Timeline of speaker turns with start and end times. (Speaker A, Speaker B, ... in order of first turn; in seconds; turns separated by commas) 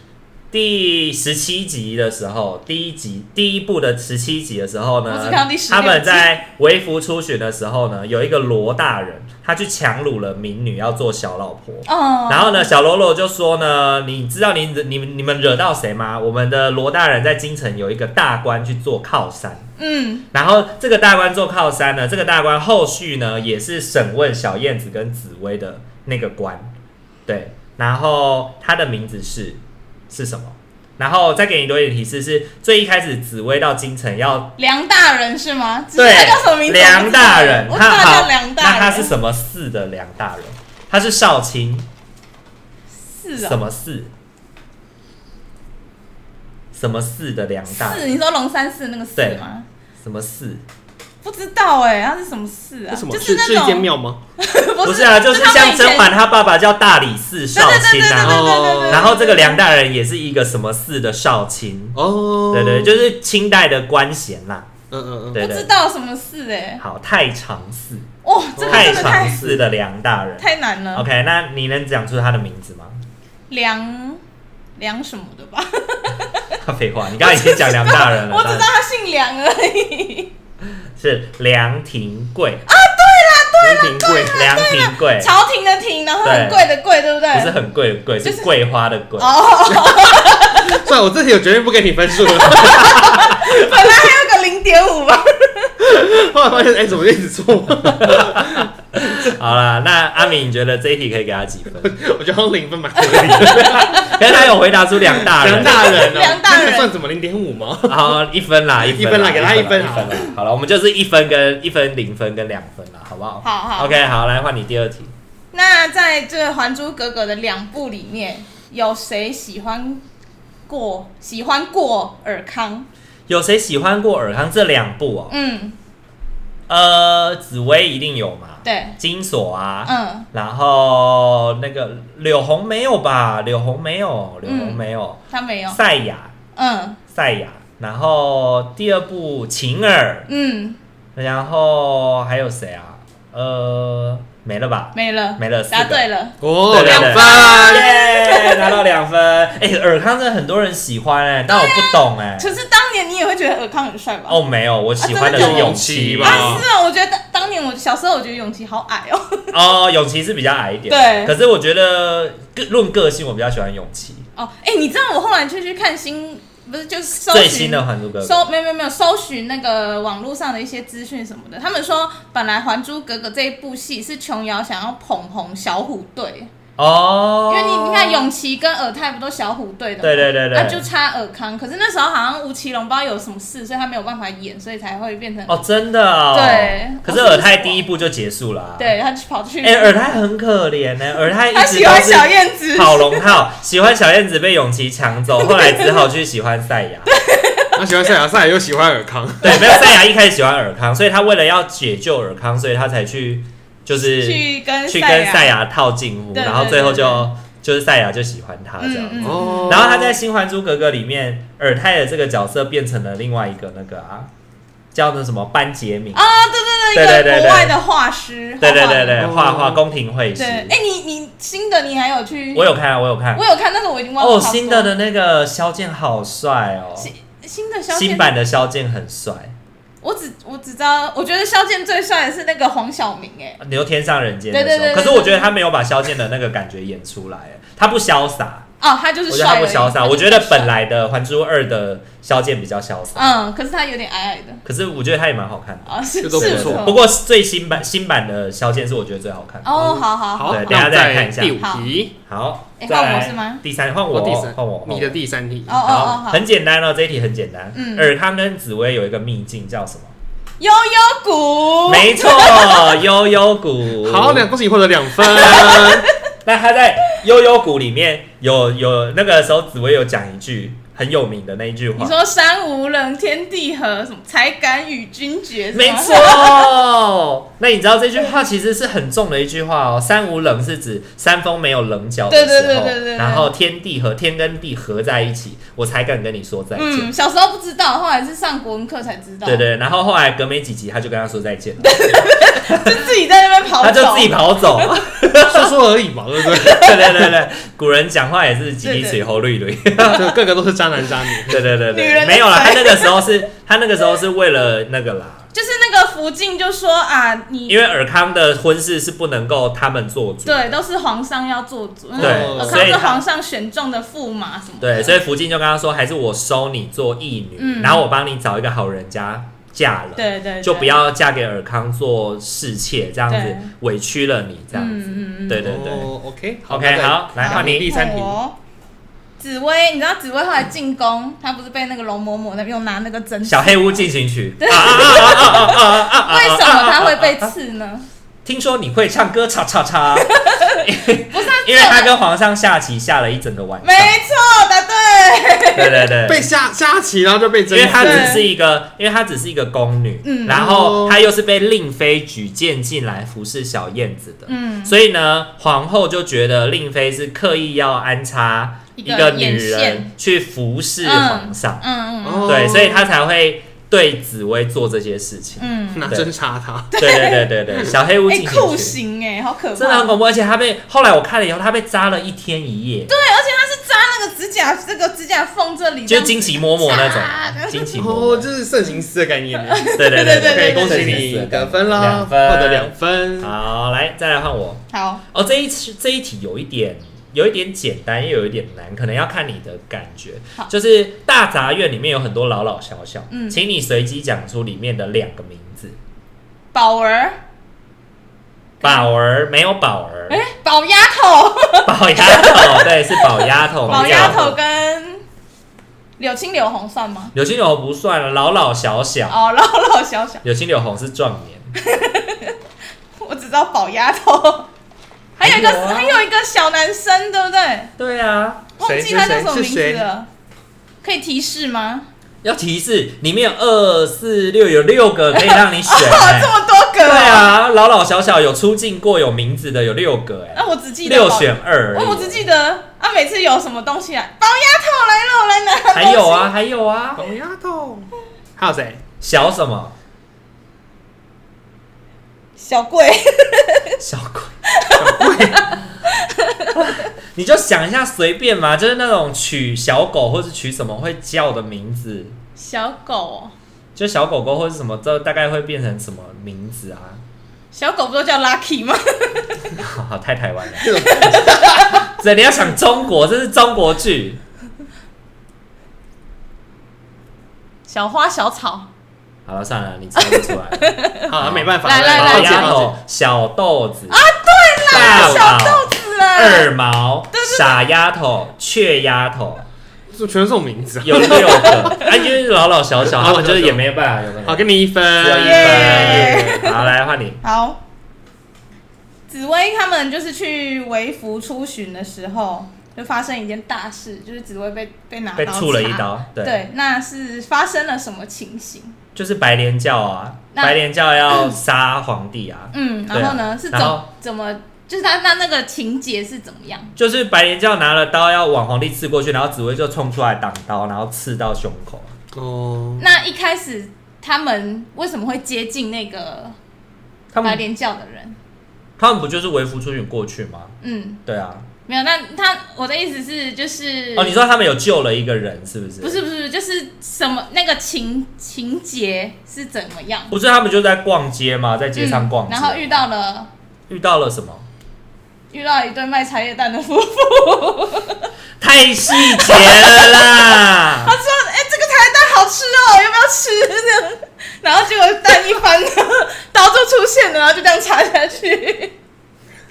Speaker A: 0.5-19.7, Speaker B: 5.1-6.3, Speaker B: 11.9-12.7, Speaker B: 19.8-20.3, Speaker A: 20.3-26.7, Speaker A: 27.3-34.5, Speaker B: 34.6-39.1, Speaker A: 36.0-41.9, Speaker B: 43.1-43.6, Speaker A: 43.4-44.1, Speaker A: 46.7-48.1, Speaker B: 47.7-49.7, Speaker A: 49.2-49.4, Speaker A: 50.0-50.6, Speaker B: 51.2-56.1, Speaker C: 52.9-54.2, Speaker A: 54.8-64.7, Speaker B: 57.5-59.6, Speaker C: 58.2-59.1, Speaker C: 62.0-63.0, Speaker C: 64.9-65.4, Speaker A: 65.3-65.7, Speaker B: 65.4-66.8, Speaker A: 66.8-68.1, Speaker B: 68.2-69.5, Speaker C: 68.6-69.6, Speaker A: 68.6-73.0, Speaker B: 70.4-71.1, Speaker B: 73.5-74.2, Speaker B: 74.8-76.5, Speaker A: 76.6-78.7, Speaker B: 77.2-80.3, Speaker A: 81.0-82.7, Speaker B: 82.7-87.6, Speaker C: 83.6-84.4, Speaker A: 84.3-85.3, Speaker A: 86.2-86.6, Speaker A: 87.3-89.3, Speaker B: 88.2-88.5, Speaker B: 89.2-90.8, Speaker C: 89.7-93.5, Speaker B: 92.3-95.8, Speaker C: 95.8-98.7, Speaker A: 98.0-102.0, Speaker C: 101.8-104.0, Speaker B: 103.0-104.1, Speaker A: 103.2-106.1, Speaker C: 105.1-108.2, Speaker B: 105.6-106.9, Speaker A: 107.9-115.1, Speaker C: 108.8-110.3, Speaker B: 113.4-114.1, Speaker B: 115.5-120.0, Speaker B: 120.7-122.9, Speaker A: 123.3-125.3, Speaker B: 125.3-125.8, Speaker A: 126.7-136.3, Speaker B: 128.7-129.0, Speaker B: 129.9-130.3, Speaker B: 134.4-135.8, Speaker B: 136.6-137.0, Speaker A: 137.1-140.3, Speaker B: 140.3-140.8, Speaker A: 141.2-146.0, Speaker B: 144.9-148.8, Speaker C: 146.4-147.9, Speaker A: 146.7-152.6, Speaker B: 151.5-154.4, Speaker A: 154.3-156.6, Speaker B: 155.0-159.5, Speaker C: 155.3-156.7, Speaker A: 159.5-164.2, Speaker B: 160.9-161.3, Speaker B: 164.4-176.5, Speaker A: 167.3-168.4, Speaker A: 176.8-178.3, Speaker B: 177.5-185.6, Speaker A: 180.0-180.9, Speaker A: 185.5-188.9, Speaker B: 186.3-187.8, Speaker B: 188.8-189.9, Speaker A: 189.6-197.1, Speaker B: 191.5-193.3, Speaker B: 195.4-196.1, Speaker B: 197.1-197.8, Speaker C: 197.8-199.8, Speaker A: 199.4-214.3, Speaker B: 199.5-199.9, Speaker B: 204.0-205.6, Speaker B: 206.3-207.3, Speaker B: 208.8-209.9, Speaker C: 209.2-210.2, Speaker A: 214.9-216.4, Speaker B: 216.2-219.3, Speaker A: 216.9-217.8, Speaker A: 218.6-220.7, Speaker C: 219.2-219.8, Speaker B: 220.4-222.7, Speaker A: 222.5-223.4, Speaker B: 223.3-224.9, Speaker A: 224.2-227.1, Speaker B: 227.0-228.3, Speaker A: 227.9-229.6, Speaker B: 230.0-233.6, Speaker A: 233.6-238.7, Speaker B: 234.5-235.5, Speaker B: 238.8-240.7, Speaker A: 239.3-243.3, Speaker B: 243.2-244.6, Speaker A: 244.7-249.9, Speaker B: 245.9-247.0, Speaker C: 246.2-247.0, Speaker B: 249.6-250.7, Speaker C: 249.8-252.1, Speaker A: 250.5-251.6, Speaker B: 251.6-251.9, Speaker A: 252.3-260.1, Speaker B: 252.8-253.6, Speaker C: 254.1-255.8, Speaker B: 255.7-256.4, Speaker B: 257.8-258.1, Speaker B: 260.6-263.0, Speaker A: 261.9-264.5, Speaker C: 264.0-266.1, Speaker B: 265.2-266.1, Speaker A: 265.4-265.8, Speaker A: 266.4-272.2, Speaker B: 272.0-276.7, Speaker A: 275.7-287.1, Speaker B: 282.3-283.5, Speaker B: 286.8-289.7, Speaker A: 289.4-293.1, Speaker B: 291.8-294.9, Speaker A: 293.8-295.7, Speaker C: 295.4-297.1, Speaker A: 296.5-300.3, Speaker B: 296.6-297.1, Speaker B: 298.8-299.2, Speaker C: 300.0-301.7, Speaker A: 301.5-305.5, Speaker B: 301.9-303.4, Speaker B: 305.5-307.9, Speaker A: 307.7-310.8, Speaker B: 310.5-315.2, Speaker C: 312.1-313.1, Speaker A: 312.2-313.2, Speaker A: 314.8-326.1, Speaker B: 317.6-318.1, Speaker B: 320.2-321.0, Speaker B: 323.3-323.7, Speaker B: 324.7-325.7, Speaker C: 325.6-328.4, Speaker A: 326.7-327.9, Speaker B: 327.4-328.6, Speaker B: 329.4-334.1, Speaker A: 333.4-337.5, Speaker B: 334.6-338.1, Speaker A: 338.4-344.2, Speaker B: 340.2-342.1, Speaker B: 343.8-346.1, Speaker A: 345.8-346.5, Speaker C: 346.3-348.4, Speaker A: 347.7-361.8, Speaker B: 348.0-348.5, Speaker B: 350.2-350.7, Speaker C: 350.5-351.2, Speaker B: 354.5-354.9, Speaker B: 359.0-360.1, Speaker B: 361.0-362.9, Speaker C: 362.2-363.1, Speaker A: 362.4-366.3, Speaker B: 365.6-366.1, Speaker C: 365.9-366.9, Speaker B: 366.9-370.2, Speaker A: 367.0-369.0, Speaker A: 369.8-373.2, Speaker B: 373.1-377.9, Speaker A: 376.1-378.5, Speaker C: 378.0-383.5, Speaker B: 379.6-381.3, Speaker A: 380.0-396.0, Speaker B: 384.9-385.2, Speaker B: 393.3-393.6, Speaker B: 396.7-397.4, Speaker B: 398.8-399.1, Speaker A: 398.8-400.4, Speaker B: 400.3-405.2, Speaker A: 401.9-404.6, Speaker C: 404.0-404.4, Speaker B: 406.2-407.3, Speaker A: 407.3-409.4, Speaker B: 409.3-410.4, Speaker A: 410.4-411.7, Speaker B: 411.8-412.6, Speaker B: 413.2-414.7, Speaker A: 415.4-416.2, Speaker B: 415.4-417.9, Speaker A: 418.0-418.7, Speaker B: 418.8-420.3, Speaker C: 418.8-420.1, Speaker B: 421.0-422.1, Speaker A: 422.4-432.4, Speaker B: 425.3-427.5, Speaker B: 430.6-436.5, Speaker A: 435.9-437.2, Speaker C: 437.2-439.0, Speaker A: 439.2-439.9, Speaker B: 442.6-444.0, Speaker A: 444.0-444.5, Speaker B: 444.7-446.7, Speaker C: 444.9-445.7, Speaker A: 446.7-452.4, Speaker B: 452.6-453.5, Speaker A: 453.9-457.2, Speaker B: 457.7-459.5, Speaker A: 459.8-464.4, Speaker C: 460.8-462.0, Speaker B: 460.8-462.0, Speaker B: 467.9-468.9, Speaker A: 469.5-474.2, Speaker B: 470.2-472.8, Speaker C: 471.3-472.9, Speaker B: 474.1-476.7, Speaker C: 474.8-475.5, Speaker A: 474.8-479.7, Speaker B: 477.3-477.8, Speaker C: 480.1-482.1, Speaker A: 481.0-487.4, Speaker B: 481.3-482.0, Speaker C: 483.0-483.9, Speaker C: 484.4-486.7, Speaker B: 485.4-487.8, Speaker B: 489.3-499.0, Speaker A: 495.4-496.6, Speaker A: 499.1-504.1, Speaker B: 501.3-501.6, Speaker B: 502.7-506.9, Speaker A: 507.0-512.1, Speaker C: 512.3-513.1, Speaker B: 513.0-516.5, Speaker A: 517.3-517.6, Speaker B: 517.4-518.4, Speaker A: 519.0-520.7, Speaker B: 520.8-521.2, Speaker A: 521.2-521.6, Speaker B: 521.9-524.4, Speaker A: 524.2-526.2, Speaker B: 526.0-530.3, Speaker A: 530.3-533.0, Speaker B: 532.0-533.5, Speaker A: 533.9-534.7, Speaker B: 535.5-538.3, Speaker A: 538.6-541.1, Speaker B: 539.1-548.9